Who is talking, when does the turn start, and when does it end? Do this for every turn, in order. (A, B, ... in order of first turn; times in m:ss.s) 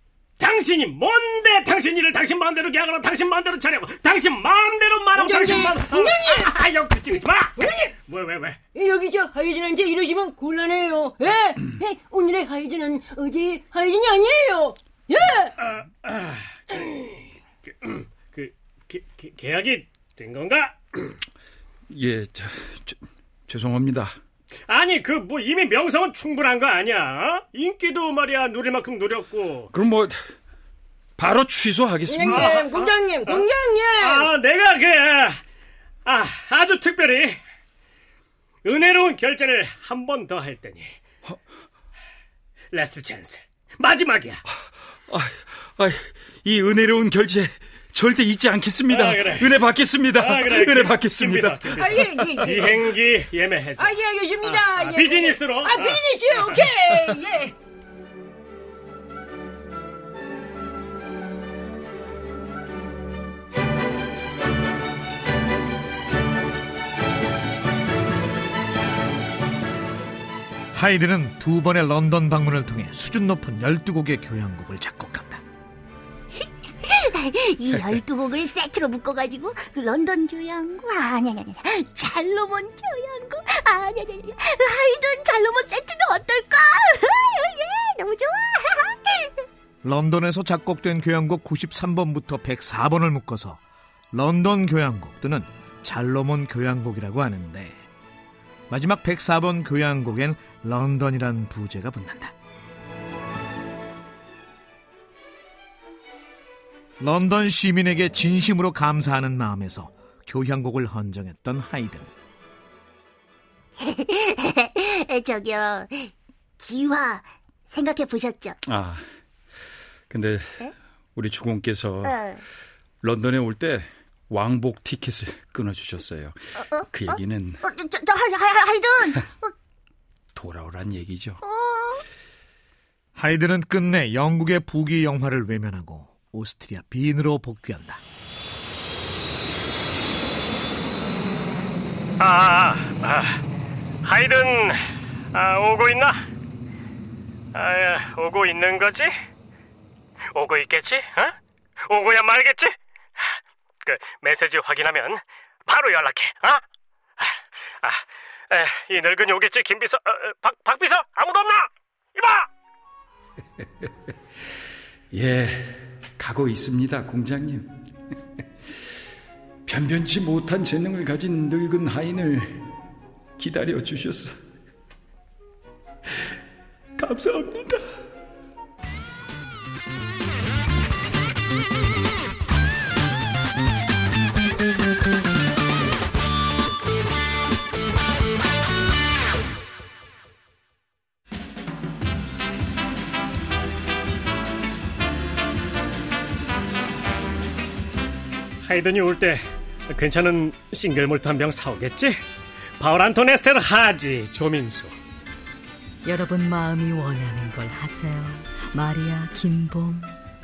0:00.4-0:08.6 A
0:05.2-0:06.5 B
0:07.6-0:08.0 B
0:08.7-0:15.7 B
0:16.0-0:21.2 A
0:21.9-0:23.0 C
0:23.5-0:24.1 C
0:24.7-0:29.7 A
0:29.7-0:30.2 C
0:31.2-0:32.6 C
0:32.1-0:34.3 B
0:32.3-0:35.4 A
0:36.0-0:37.4 A
0:38.6-0:41.0 A
0:42.7-0:44.4 A
0:45.1-0:52.7 C
0:48.9-0:49.6 A
0:50.1-0:56.6 A
0:51.8-0:52.9 B
0:53.8-0:57.5 B
1:10.7-1:15.4 D
1:16.8-1:29.3 E
1:29.8-1:33.6 D
1:34.1-1:37.8 D
1:38.7-1:42.3 D
1:47.0-1:52.1 D
1:53.8-1:58.6 E
1:58.6-1:59.1 C
2:00.1-2:00.6 C
2:01.1-2:02.2 C
2:02.0-2:02.4 E
2:03.0-2:06.4 C
2:06.8-2:09.5 E
2:06.9-2:07.6 C
2:10.3-2:11.4 C
2:11.4-2:12.0 E
2:13.2-2:18.0 D
2:22.2-2:23.4 A
2:24.0-2:24.8 A
2:25.3-2:26.2 A
2:27.5-2:29.1 A
2:30.3-2:31.4 A
2:31.9-2:36.6 A
2:37.2-2:42.5 A
2:45.1-2:47.8 C
2:49.6-2:52.7 C
2:53.4-2:54.4 C
2:57.0-2:57.8 C
3:18.6-3:22.2 A
3:22.8-3:24.9 A
3:26.0-3:30.2 F